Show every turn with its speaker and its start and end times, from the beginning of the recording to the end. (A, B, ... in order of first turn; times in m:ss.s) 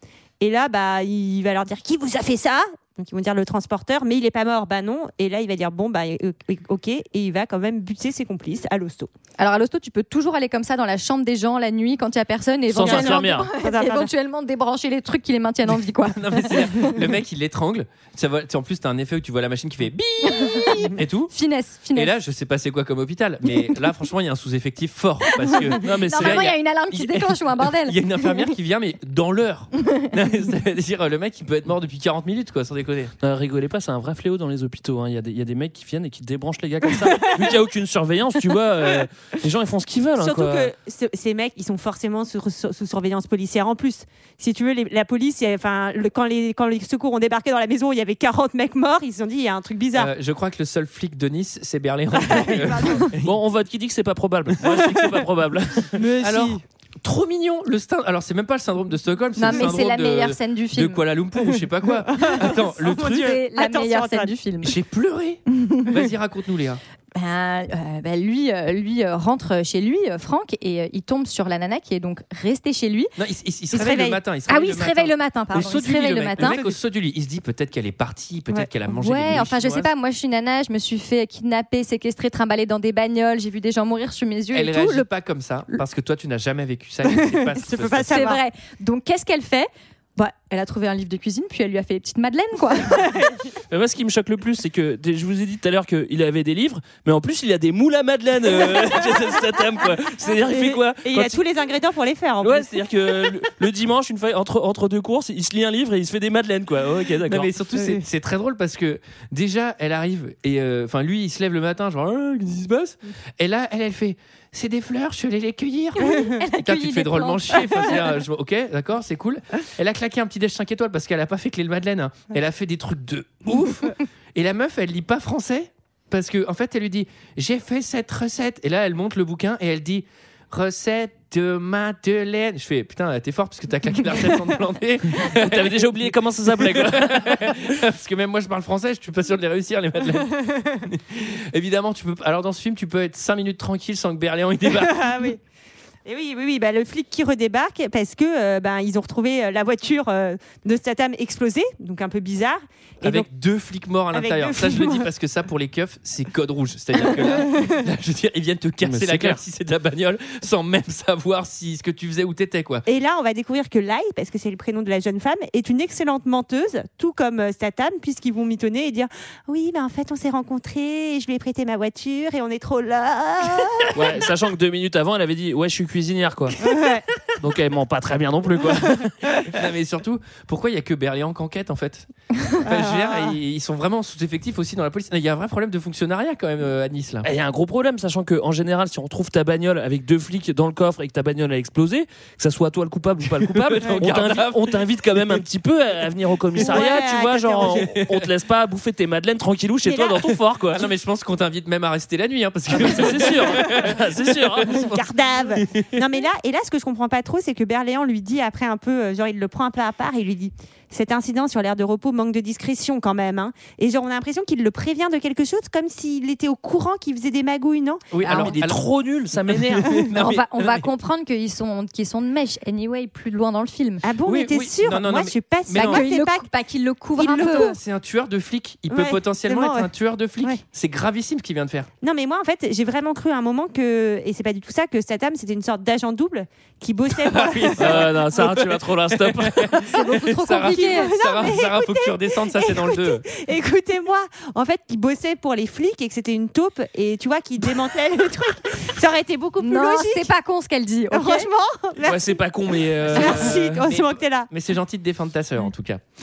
0:00.4-0:09.1 A
0:09.4-0:17.0 B
0:12.7-0:13.5 C
0:12.8-0:14.1 A
0:16.0-0:21.3 D
0:20.3-0:22.1 B
0:21.9-0:33.1 D
0:25.3-0:28.3 B
0:25.8-0:26.5 C
0:33.2-0:40.7 C
0:40.2-0:50.1 A
0:50.0-0:53.3 D
0:52.2-0:53.1 A
0:53.2-0:56.0 C
0:56.0-0:56.6 A
0:56.2-1:03.4 D
0:59.4-1:01.0 B
1:02.1-1:04.3 A
1:02.9-1:04.8 B
1:04.6-1:06.8 D
1:05.5-1:05.9 B
1:07.2-1:13.1 B
1:13.2-1:19.9 D
1:13.7-1:14.2 A
1:14.5-1:16.6 B
1:16.4-1:16.7 A
1:18.9-1:25.1 B
1:24.5-1:28.2 D
1:27.2-1:28.4 A
1:28.1-1:33.0 B
1:33.7-1:41.4 C
1:40.4-1:42.7 A
1:42.4-1:47.5 C
1:47.3-2:15.8 D
1:47.8-1:48.0 A
1:56.0-1:58.1 B
2:15.2-2:17.6 C
2:16.7-2:25.0 D
2:24.8-2:25.4 A
2:26.0-2:33.3 A
2:33.0-2:42.8 D
2:34.1-2:35.1 A
2:37.1-2:37.7 A
2:38.8-2:39.4 C
2:42.9-2:54.2 A
2:53.9-2:56.6 C
2:56.6-2:57.1 A
2:57.4-2:59.1 C
2:59.5-3:07.3 D
3:02.7-3:03.3 A
3:07.2-3:20.9 C
3:13.5-3:14.8 D
3:16.6-3:17.9 A
3:17.8-3:18.1 D
3:19.9-3:20.3 A
3:20.7-3:25.0 D
3:22.7-3:24.8 C
3:24.7-3:38.2 A
3:25.6-3:26.0 D
3:38.1-3:38.8 D
3:38.2-3:38.6 B
3:38.3-3:40.1 C
3:39.5-3:40.9 D
3:40.1-3:44.0 B
3:44.0-3:46.5 A
3:44.2-3:46.1 D
3:45.8-3:47.8 B
3:47.2-3:47.8 A
3:47.4-3:51.9 D
3:48.9-3:49.9 A
3:52.0-3:58.1 A
3:57.2-4:03.2 D
3:57.8-3:59.9 C
3:59.8-4:01.2 B
4:00.6-4:10.3 A
4:09.6-4:11.5 B
4:11.1-4:12.4 A
4:12.0-4:13.8 C
4:13.1-4:14.5 A
4:13.2-4:16.0 D